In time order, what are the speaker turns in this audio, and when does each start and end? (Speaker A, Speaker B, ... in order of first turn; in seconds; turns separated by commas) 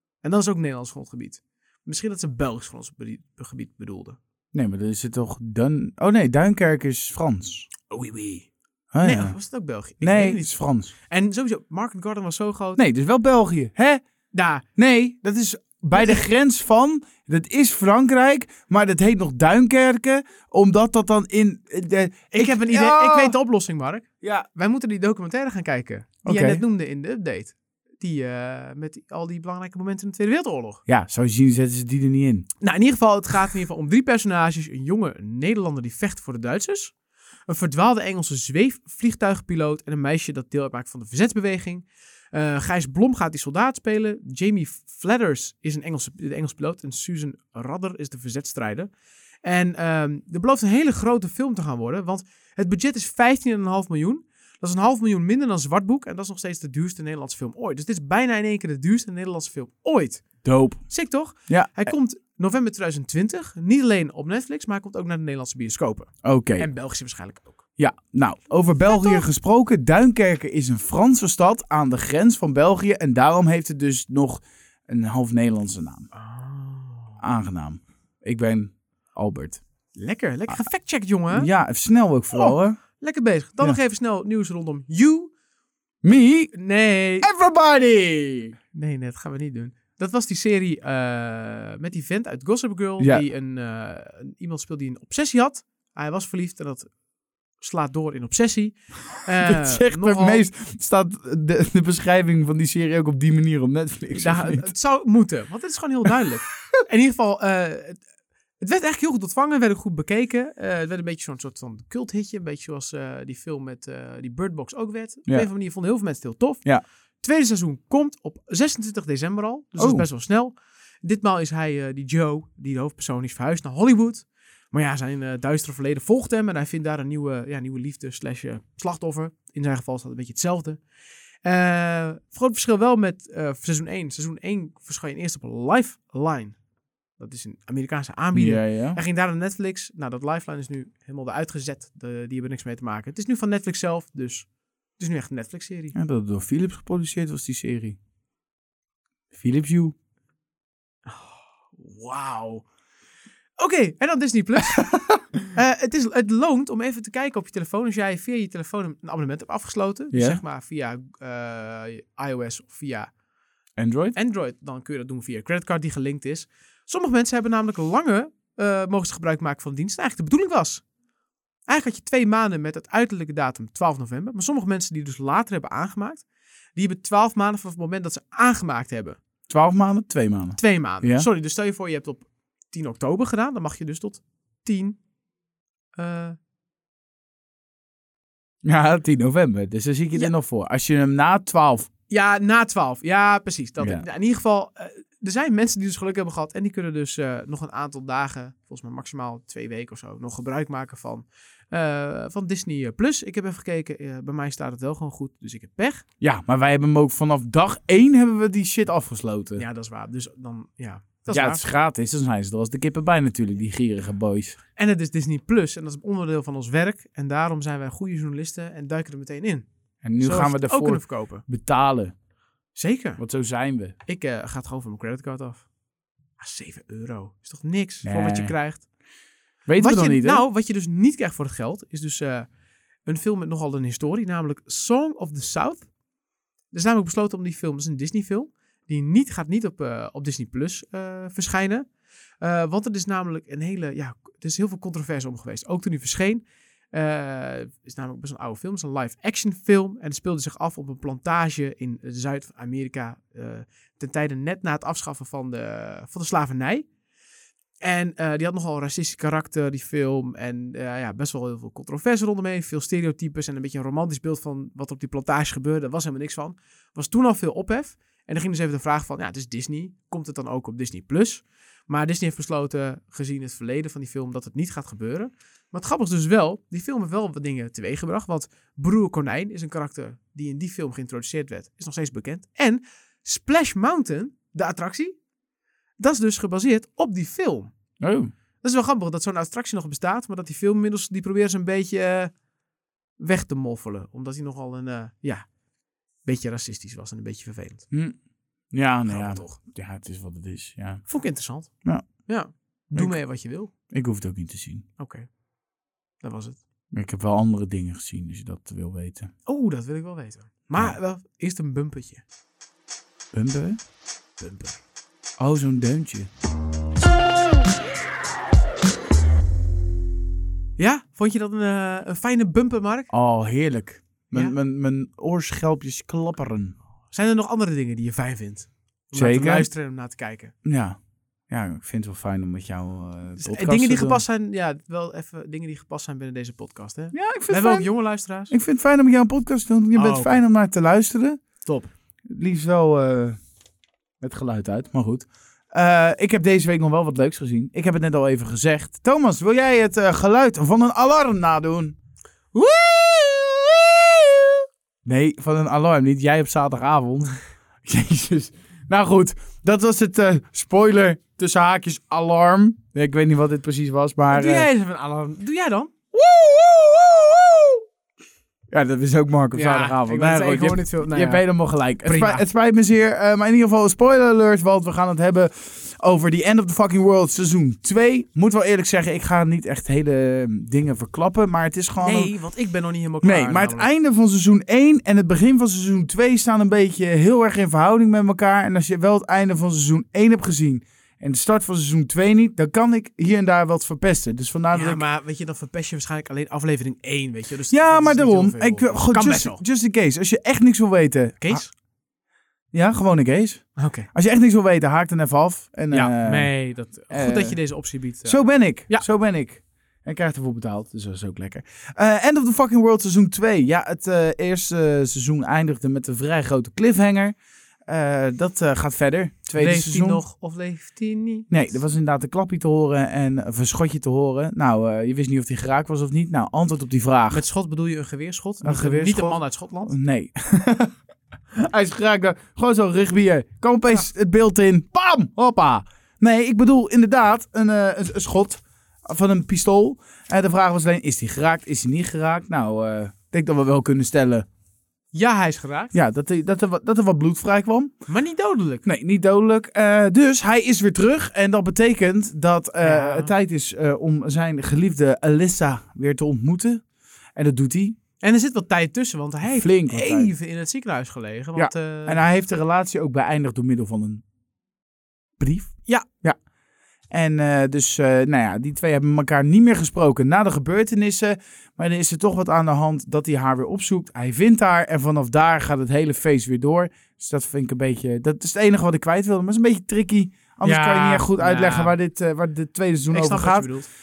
Speaker A: 0.2-4.2, Speaker B: 4.5-7.7, Speaker A: 7.9-8.5, Speaker B: 8.9-9.4, Speaker A: 9.0-10.5, Speaker B: 10.0-10.9, Speaker A: 11.1-12.8, Speaker B: 12.8-14.0, Speaker A: 14.3-14.7, Speaker B: 14.8-23.4, Speaker A: 22.3-30.8, Speaker B: 24.2-24.5, Speaker B: 26.2-26.6, Speaker B: 30.9-32.5, Speaker A: 32.6-36.9, Speaker A: 37.5-48.9, Speaker A: 49.4-60.3, Speaker B: 60.4-60.8, Speaker A: 60.9-67.6, Speaker B: 61.5-61.9, Speaker B: 66.2-66.7, Speaker B: 67.8-76.1, Speaker A: 68.9-69.2, Speaker A: 76.1-77.2, Speaker B: 77.2-79.6, Speaker A: 80.0-81.5, Speaker B: 81.3-82.8, Speaker A: 82.3-85.3, Speaker B: 86.0-86.5, Speaker A: 86.5-87.3, Speaker B: 87.2-88.5, Speaker A: 88.7-96.9, Speaker B: 93.0-93.2, Speaker A: 97.6-100.5, Speaker B: 99.4-104.7, Speaker A: 104.2-108.0, Speaker A: 108.6-116.7, Speaker A: 117.2-130.8, Speaker B: 119.8-120.1, Speaker A: 131.4-136.6, Speaker A: 137.2-144.5, Speaker B: 138.3-139.0, Speaker A: 145.0-146.0, Speaker B: 145.9-148.0, Speaker B: 149.3-149.9, Speaker A: 151.1-152.7, Speaker A: 153.6-154.9, Speaker B: 154.7-155.4, Speaker A: 155.5-163.1, Speaker B: 160.1-160.4, Speaker B: 163.8-164.2, Speaker A: 164.2-170.8, Speaker A: 171.7-179.2, Speaker B: 179.5-181.3, Speaker A: 180.6-185.0, Speaker A: 186.0-186.4, Speaker B: 188.6-191.9, Speaker A: 192.1-206.1, Speaker B: 193.8-194.1, Speaker B: 206.2-209.6, Speaker A: 209.6-211.6, Speaker B: 211.3-214.6, Speaker A: 214.8-219.7, Speaker B: 220.0-222.1, Speaker A: 220.2-221.4, Speaker A: 222.8-223.2, Speaker B: 223.2-223.9, Speaker A: 224.1-225.7, Speaker A: 226.4-228.9, Speaker B: 228.0-228.5, Speaker B: 229.7-230.4, Speaker A: 229.8-232.5, Speaker A: 233.1-235.9, Speaker A: 236.7-241.8, Speaker A: 242.4-256.9, Speaker A: 257.8-285.2, Speaker A: 286.0-287.7, Speaker B: 288.0-288.3, Speaker A: 288.6-292.3, Speaker A: 293.2-295.4, Speaker A: 296.2-297.9, Speaker B: 297.9-298.2, Speaker B: 298.7-301.0, Speaker A: 299.1-299.6, Speaker A: 301.1-301.7, Speaker A: 302.3-303.7, Speaker B: 303.9-304.9, Speaker A: 305.0-305.3, Speaker A: 306.2-306.6, Speaker B: 306.9-309.3, Speaker A: 309.5-312.2, Speaker B: 313.3-313.8, Speaker A: 314.4-314.8, Speaker B: 315.4-316.3, Speaker A: 320.8-323.1, Speaker B: 323.1-326.8, Speaker A: 327.1-330.5, Speaker B: 329.1-329.7, Speaker B: 330.6-331.0, Speaker B: 331.5-334.2, Speaker A: 333.4-338.6, Speaker B: 337.1-337.9, Speaker B: 338.5-341.4, Speaker A: 339.9-340.4, Speaker A: 341.6-341.9, Speaker B: 342.3-343.4, Speaker B: 344.2-352.0, Speaker B: 352.6-353.6, Speaker B: 355.1-364.7, Speaker A: 364.3-365.9, Speaker B: 366.1-367.8, Speaker B: 368.7-382.3, Speaker A: 369.5-371.4, Speaker A: 372.0-372.4, Speaker A: 382.0-383.9, Speaker B: 383.2-395.0, Speaker A: 394.7-399.6, Speaker B: 397.7-401.6, Speaker A: 401.4-401.7, Speaker B: 402.7-406.5, Speaker A: 403.8-404.1, Speaker A: 405.9-409.1, Speaker B: 407.1-407.6, Speaker B: 408.2-417.4, Speaker B: 417.9-420.2, Speaker A: 419.6-421.5, Speaker B: 421.5-427.4, Speaker A: 427.3-429.9, Speaker B: 428.6-430.9, Speaker B: 431.5-444.5, Speaker A: 445.1-446.0, Speaker B: 445.9-447.9, Speaker A: 448.1-448.9, Speaker B: 448.9-456.8, Speaker A: 452.8-453.3, Speaker B: 457.4-458.0, Speaker A: 458.2-462.2, Speaker B: 459.4-460.3, Speaker B: 461.6-464.2, Speaker B: 465.4-466.4, Speaker B: 467.1-483.7, Speaker A: 480.6-481.9, Speaker A: 483.1-483.9